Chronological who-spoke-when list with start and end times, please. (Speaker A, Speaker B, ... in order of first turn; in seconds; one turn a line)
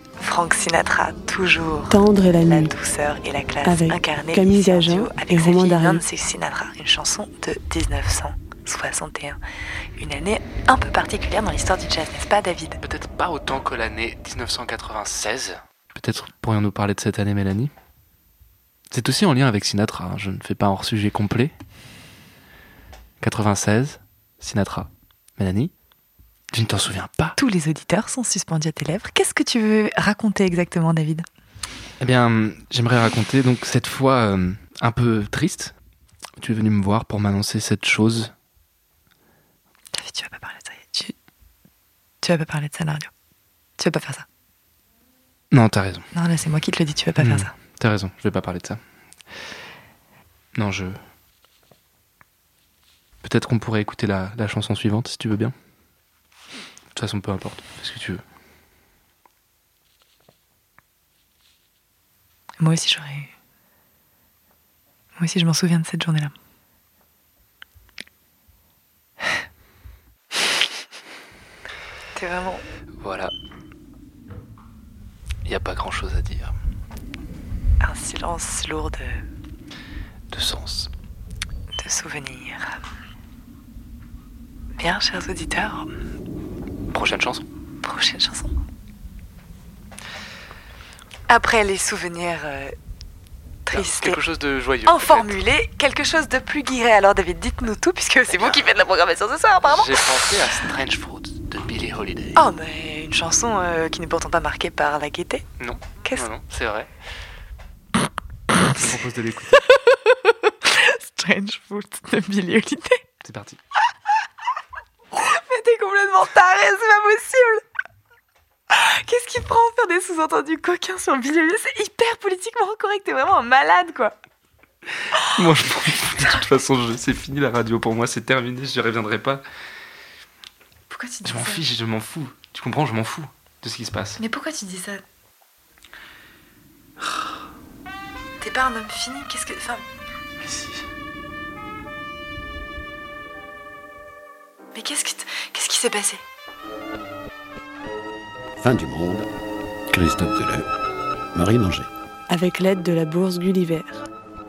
Speaker A: 0.2-9.4
Speaker B: 1.9-2.7
Speaker B: 3.6-6.0
Speaker A: 10.0-12.8
Speaker C: 12.8-17.7
Speaker C: 18.9-21.5
Speaker C: 23.2-25.7
Speaker C: 26.5-27.4
Speaker A: 27.4-31.2
Speaker C: 32.0-35.7
Speaker C: 36.4-38.3
Speaker A: 39.9-41.1
Speaker A: 42.2-43.1
Speaker A: 43.8-44.2
Speaker C: 45.5-46.1
Speaker A: 46.1-47.5
Speaker C: 47.2-48.8
Speaker C: 50.5-51.0
Speaker C: 53.2-55.5
Speaker C: 56.9-58.2
Speaker A: 62.6-63.3
Speaker A: 65.2-66.3
Speaker A: 72.1-72.6
Speaker C: 73.0-73.3
Speaker C: 75.4-76.5
Speaker A: 77.8-79.2
Speaker C: 80.3-80.9
Speaker A: 81.8-82.8
Speaker A: 84.8-85.9
Speaker C: 86.9-87.4
Speaker A: 87.8-88.5
Speaker A: 91.3-92.7
Speaker A: 93.7-94.2
Speaker C: 93.7-95.4
Speaker A: 94.9-100.2
Speaker C: 98.3-98.7
Speaker C: 99.6-102.4
Speaker A: 102.3-105.4
Speaker C: 105.6-106.9
Speaker C: 108.7-109.6
Speaker A: 109.7-113.0
Speaker C: 113.2-113.6
Speaker A: 115.1-117.6
Speaker A: 118.7-124.1
Speaker C: 125.1-129.4
Speaker A: 130.9-131.6
Speaker C: 131.2-134.2
Speaker A: 134.2-135.0
Speaker A: 138.4-139.8
Speaker C: 140.4-140.8
Speaker A: 144.8-146.2
Speaker D: 148.6-149.3
Speaker D: 149.9-150.7
Speaker D: 151.3-151.9
Speaker B: 152.3-153.9